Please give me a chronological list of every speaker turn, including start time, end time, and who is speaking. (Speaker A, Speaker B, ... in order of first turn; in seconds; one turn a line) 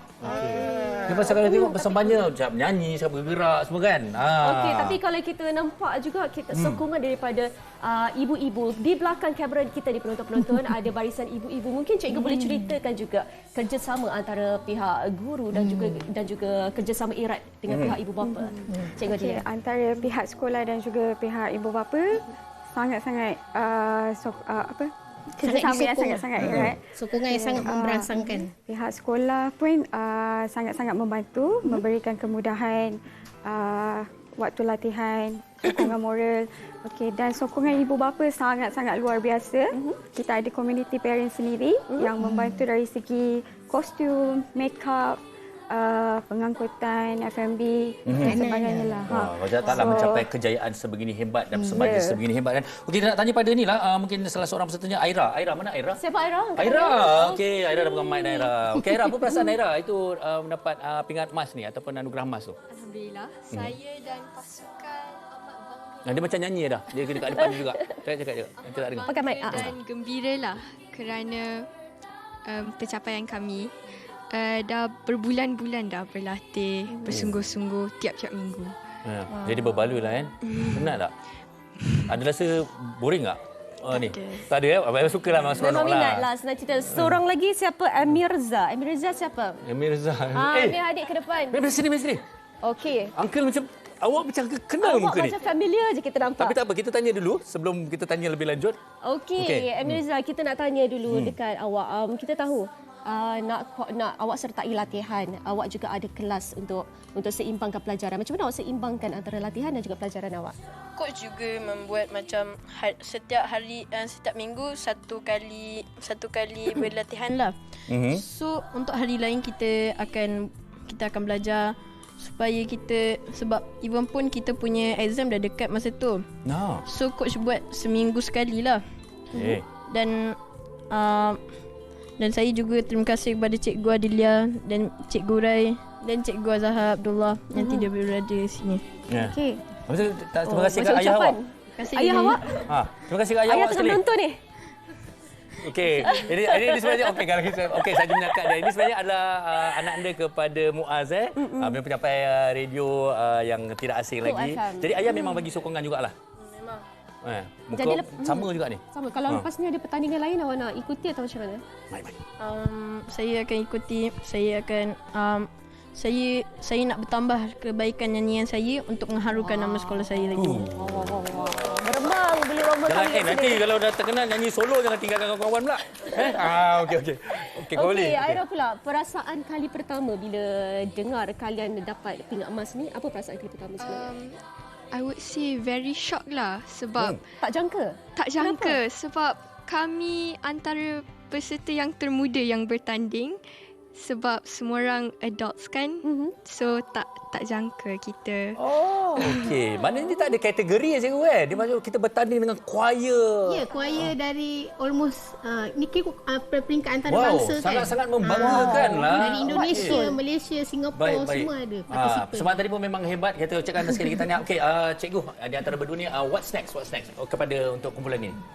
Speaker A: 0.2-5.0
Speaker B: 0.2-1.4
Speaker C: 0.2-2.3
Speaker C: 4.4-19.4
Speaker A: 6.5-6.8
Speaker B: 15.5-16.0
Speaker A: 17.7-17.9
Speaker D: 18.2-50.3
Speaker B: 25.4-26.3
Speaker A: 26.4-26.7
Speaker B: 26.9-28.5
Speaker C: 39.7-40.0
Speaker B: 42.2-42.6
Speaker A: 48.0-48.4
Speaker B: 48.2-49.1
Speaker A: 49.1-56.0
Speaker C: 49.8-50.0
Speaker B: 51.5-52.0
Speaker C: 56.0-58.5
Speaker A: 56.6-62.6
Speaker E: 62.7-66.4
Speaker A: 63.5-63.8
Speaker A: 66.0-69.8
Speaker C: 67.4-67.8
Speaker E: 68.6-71.7
Speaker C: 69.0-69.7
Speaker E: 72.5-73.7
Speaker E: 74.3-78.7
Speaker A: 77.1-77.4
Speaker A: 79.0-81.1
Speaker E: 80.5-80.9
Speaker A: 82.1-86.3
Speaker E: 83.9-84.4
Speaker C: 85.6-89.6
Speaker A: 86.9-87.2
Speaker A: 89.6-90.8
Speaker C: 90.3-91.6
Speaker A: 91.5-92.2
Speaker C: 92.6-93.1
Speaker A: 93.1-95.4
Speaker C: 94.8-96.6
Speaker A: 96.4-98.8
Speaker C: 99.0-110.5
Speaker A: 99.4-100.0
Speaker A: 101.1-101.3
Speaker F: 111.0-117.5
Speaker A: 117.9-118.2
Speaker F: 118.1-126.2
Speaker A: 126.4-126.8
Speaker F: 126.8-128.8
Speaker A: 129.3-129.6
Speaker F: 129.9-130.3
Speaker F: 130.9-131.4
Speaker F: 132.2-138.8
Speaker C: 137.5-137.9
Speaker A: 139.1-139.3
Speaker C: 139.3-139.6
Speaker A: 139.9-141.4
Speaker F: 140.4-140.8
Speaker C: 140.5-142.6
Speaker F: 141.8-142.6
Speaker A: 142.7-144.0
Speaker C: 143.5-144.4
Speaker A: 145.6-156.2
Speaker C: 146.0-147.2
Speaker C: 147.8-148.7
Speaker C: 151.3-151.8
Speaker C: 154.2-155.4
Speaker F: 156.4-156.8
Speaker A: 157.2-159.5
Speaker C: 157.8-161.6
Speaker A: 161.9-162.2
Speaker F: 162.4-170.6
Speaker A: 170.3-171.8
Speaker C: 170.8-173.6
Speaker A: 172.9-178.4
Speaker C: 176.1-176.6
Speaker C: 177.7-184.1
Speaker E: 183.8-184.4
Speaker E: 184.9-187.2
Speaker C: 187.4-188.8
Speaker E: 188.2-193.4
Speaker E: 193.9-198.6
Speaker C: 196.0-196.3
Speaker A: 198.6-204.1
Speaker E: 199.2-199.5
Speaker B: 203.4-212.5
Speaker A: 207.1-210.1
Speaker C: 208.4-210.2
Speaker A: 210.9-218.4